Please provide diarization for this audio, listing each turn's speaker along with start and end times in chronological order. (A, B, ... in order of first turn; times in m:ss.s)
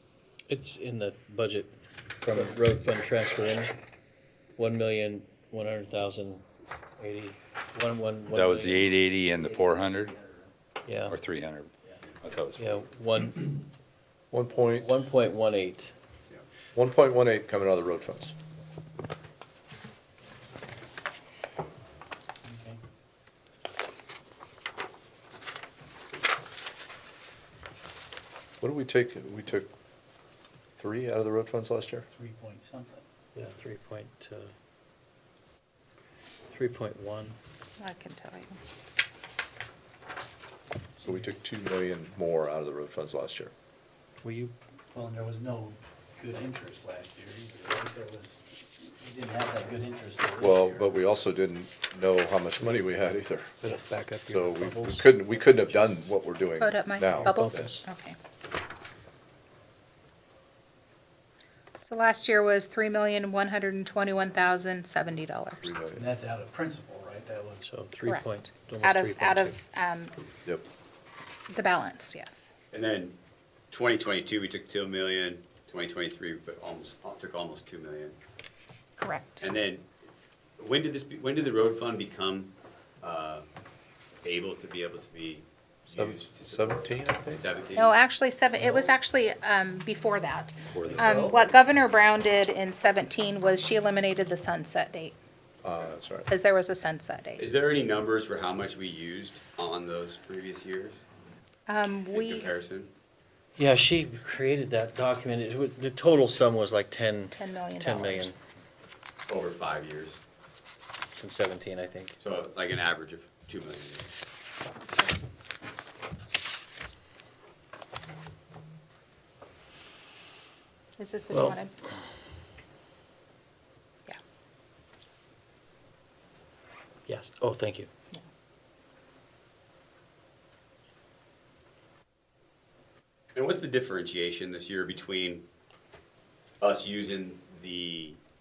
0:00.5-0:03.8 A
0:04.6-0:06.4 A
0:07.0-0:08.9 A
0:08.3-0:10.2 B
0:09.6-0:11.2 A
0:11.1-0:11.7 B
0:12.2-0:12.8 B
0:12.6-0:13.6 A
0:14.3-0:15.0 C
0:14.7-0:15.9 A
0:16.8-0:18.4 C
0:22.4-0:22.8 D
0:28.6-0:29.7 C
0:30.8-0:32.1 C
0:32.1-0:33.0 D
0:33.4-0:34.5 A
0:36.5-0:37.4 A
0:37.8-0:38.6 E
0:41.0-0:43.5 C
0:44.2-0:44.5 A
0:44.9-0:50.9 D
0:50.4-0:53.7 C
0:53.6-0:55.2 A
0:54.3-0:57.8 C
0:55.3-0:55.9 D
0:56.6-0:58.2 E
0:57.2-0:57.8 A
1:01.8-1:05.7 E
1:05.6-1:06.1 C
1:06.0-1:07.7 D
1:07.6-1:09.6 A
1:08.0-1:10.2 E
1:11.5-1:12.5 E
1:12.7-1:13.2 F
1:13.7-1:18.2 F
1:19.0-1:19.4 E
1:19.4-1:19.9 F
1:20.6-1:23.4 F
1:24.2-1:28.0 F
1:25.9-1:27.5 C
1:27.8-1:35.2 E
1:30.7-1:31.1 C
1:31.0-1:31.4 A
1:35.6-1:36.3 C
1:36.3-1:37.4 E
1:37.4-1:41.0 F
1:41.7-1:42.5 E
1:42.1-1:42.9 F
1:43.6-1:48.4 A
1:47.3-1:48.4 E
1:49.3-1:50.2 F
1:51.1-1:52.2 A
1:52.2-1:54.2 F
1:54.9-1:55.3 E
2:01.0-2:01.8 E
2:01.3-2:01.6 A
2:07.1-2:07.9 A
2:13.4-2:15.4 F
2:16.6-2:18.2 F